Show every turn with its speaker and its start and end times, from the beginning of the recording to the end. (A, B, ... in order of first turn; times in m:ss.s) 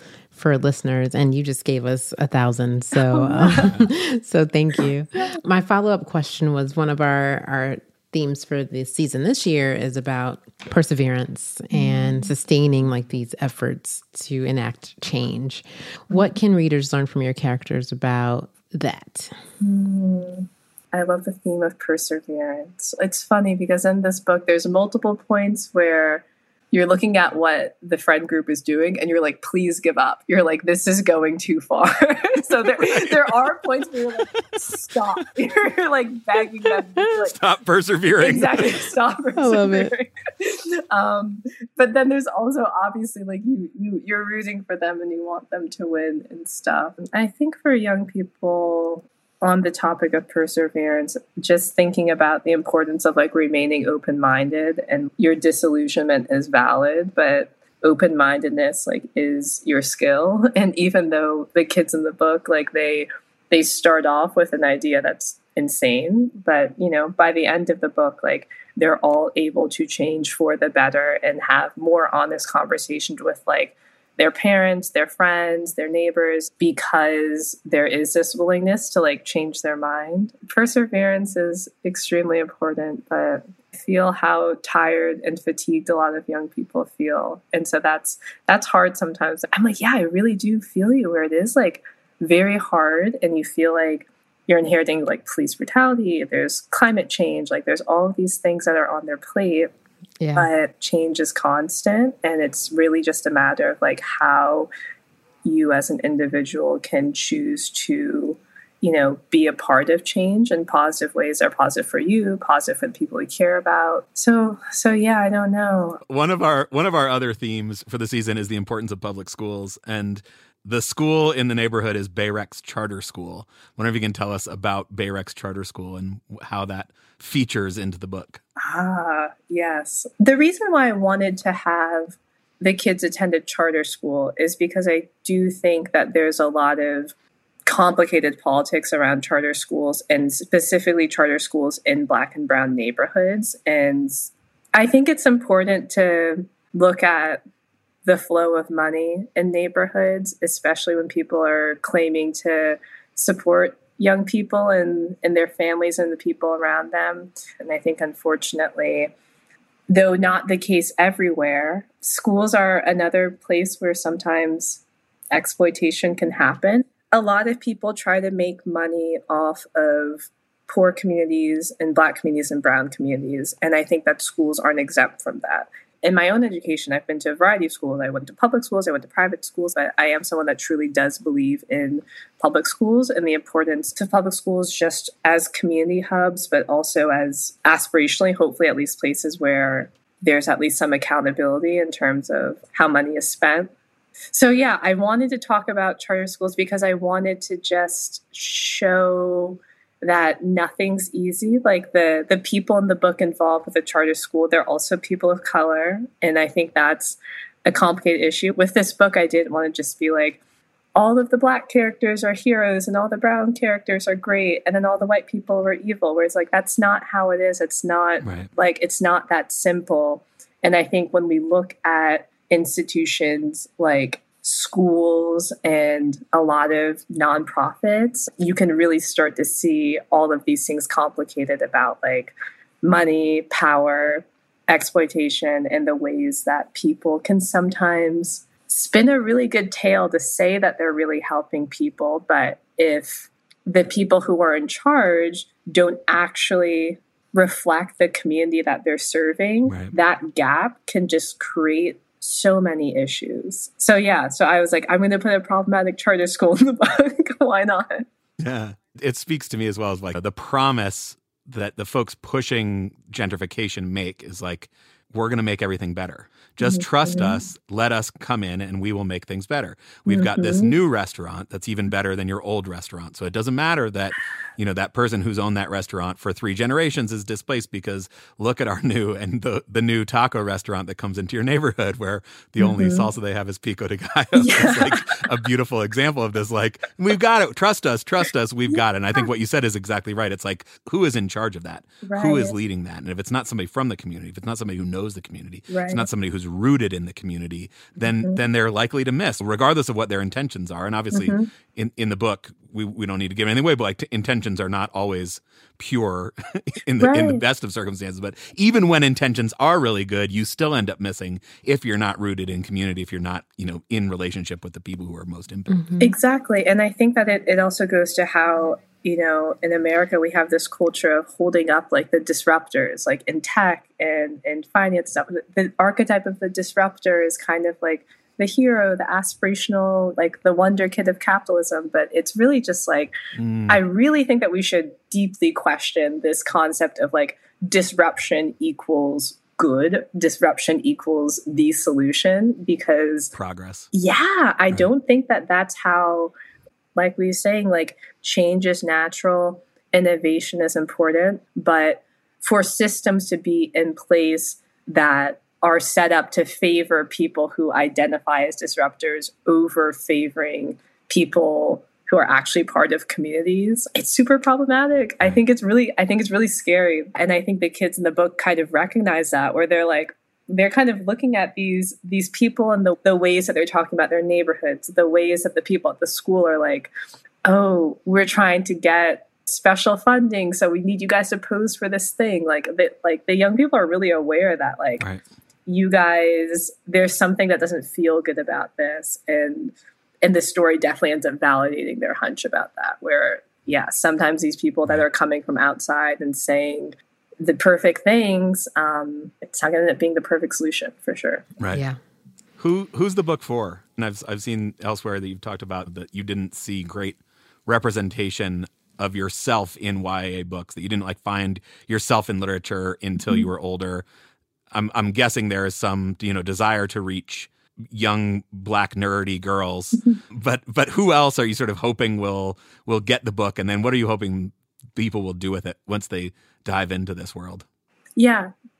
0:00.3-0:19.3 A
0:03.0-0:03.8 B
0:03.6-0:03.9 C
0:11.7-0:12.3 B
0:19.6-0:37.4 B
0:32.8-0:33.3 C
0:37.0-0:38.6 C
0:38.2-1:39.7 B
0:39.4-0:39.9 A
1:40.2-1:40.5 A
1:40.3-1:44.7 B
1:45.4-1:56.0 B
1:56.1-2:08.4 C
2:08.6-2:17.1 B
2:17.7-2:27.4 B
2:28.0-2:39.1 B
2:39.9-2:44.8 B
2:45.3-3:13.7 B
3:14.3-3:30.4 B
3:31.0-4:18.0 B
3:38.2-3:38.5 C
4:09.7-4:09.9 C
4:18.4-5:15.8 C
4:26.6-4:27.4 B
4:30.1-4:30.7 B
4:42.6-4:43.0 B
4:44.4-4:45.2 B
4:52.0-4:52.6 B
4:55.7-4:56.0 B
5:01.1-5:01.5 B
5:07.0-5:07.4 B
5:15.7-5:16.2 A
5:16.0-5:33.1 B
5:33.4-5:33.8 C
5:33.7-5:43.3 B
5:43.3-5:43.9 C
5:43.9-5:46.3 B
5:46.9-6:16.9 B
6:17.4-6:25.0 B
6:25.7-6:41.4 B
6:41.7-6:42.0 A
6:42.6-6:54.0 C
6:54.7-7:07.6 C
7:08.2-7:08.5 B